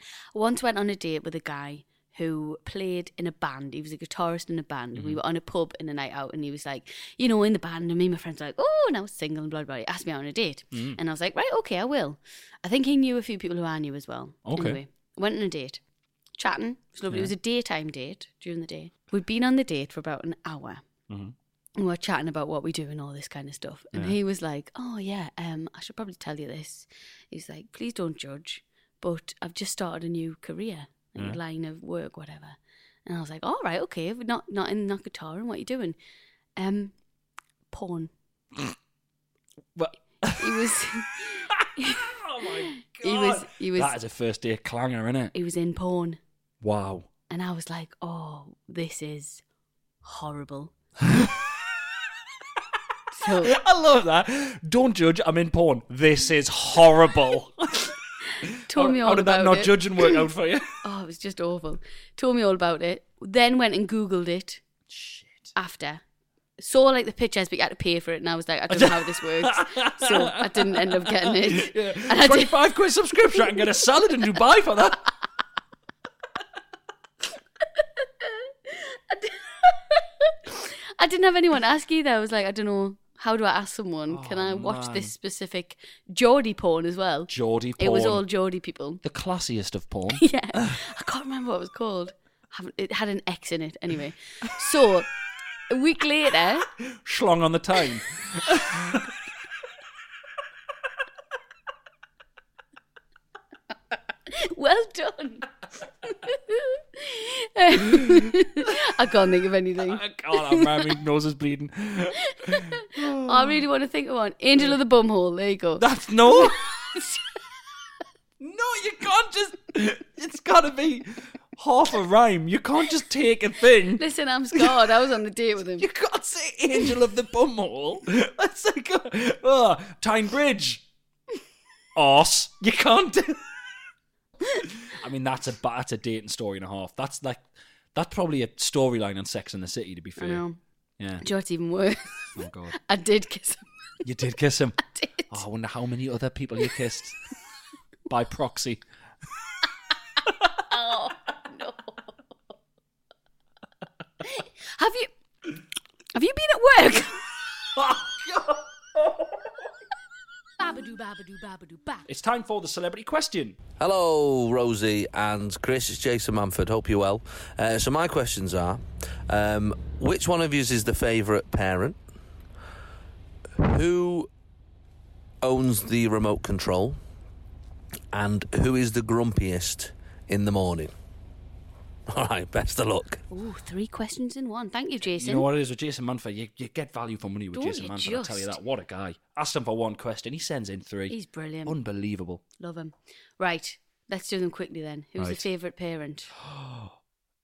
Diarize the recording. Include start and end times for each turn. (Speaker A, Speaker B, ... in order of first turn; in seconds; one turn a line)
Speaker A: 0.3-15.8
Speaker B: 5.0-5.2
Speaker B: 10.7-11.0
Speaker B: 14.5-14.8
Speaker A: 16.4-20.8
Speaker B: 21.1-21.3
Speaker A: 21.8-36.0
Speaker A: 36.6-36.9
Speaker A: 37.7-38.1
Speaker B: 39.8-40.8
Speaker A: 40.4-42.5
Speaker B: 41.5-45.3
Speaker A: 43.0-44.0
Speaker A: 45.3-46.2
Speaker B: 46.6-47.1
Speaker A: 47.3-49.4
Speaker A: 50.0-50.7
Speaker B: 51.0-51.4
Speaker A: 53.1-53.5
Speaker B: 53.4-60.7
Speaker A: 58.7-60.2
Speaker A: 60.8-64.6
Speaker B: 64.9-65.5
Speaker A: 65.6-66.0
Speaker A: 66.6-72.6
Speaker B: 68.7-75.1
Speaker A: 78.2-89.0
Speaker B: 84.1-85.1
Speaker B: 87.3-88.2
Speaker B: 89.0-90.8
Speaker A: 90.1-95.1
Speaker A: 95.7-96.7
Speaker B: 96.9-99.1
Speaker A: 104.3-105.5
Speaker A: 106.1-111.0
Speaker B: 109.9-113.6
Speaker A: 112.4-117.2
Speaker B: 115.8-116.7
Speaker B: 118.4-124.0
Speaker A: 124.0-125.8
Speaker B: 124.5-124.9
Speaker B: 125.8-130.8
Speaker B: 132.0-133.4
Speaker B: 134.6-137.4
Speaker B: 137.9-140.4
Speaker A: 140.2-140.6
Speaker B: 141.0-141.2
Speaker A: 141.2-143.7
Speaker B: 142.4-142.8
Speaker B: 144.0-147.2
Speaker A: 144.9-145.4
Speaker B: 148.1-148.8
Speaker A: 150.7-151.9
Speaker A: 154.2-155.1
Speaker A: 156.2-157.2
Speaker B: 157.8-159.3
Speaker A: 160.6-162.0
Speaker B: 162.1-163.6
Speaker C: 163.8-172.0
Speaker C: 173.6-174.3
Speaker C: 175.4-177.0
Speaker C: 178.1-180.9
Speaker C: 182.1-183.2
Speaker A: 183.3-185.5
Speaker B: 185.1-192.4
Speaker A: 187.5-188.5
Speaker A: 191.1-191.7
Speaker A: 192.6-196.3
Speaker B: 195.2-195.4
Speaker B: 196.4-196.9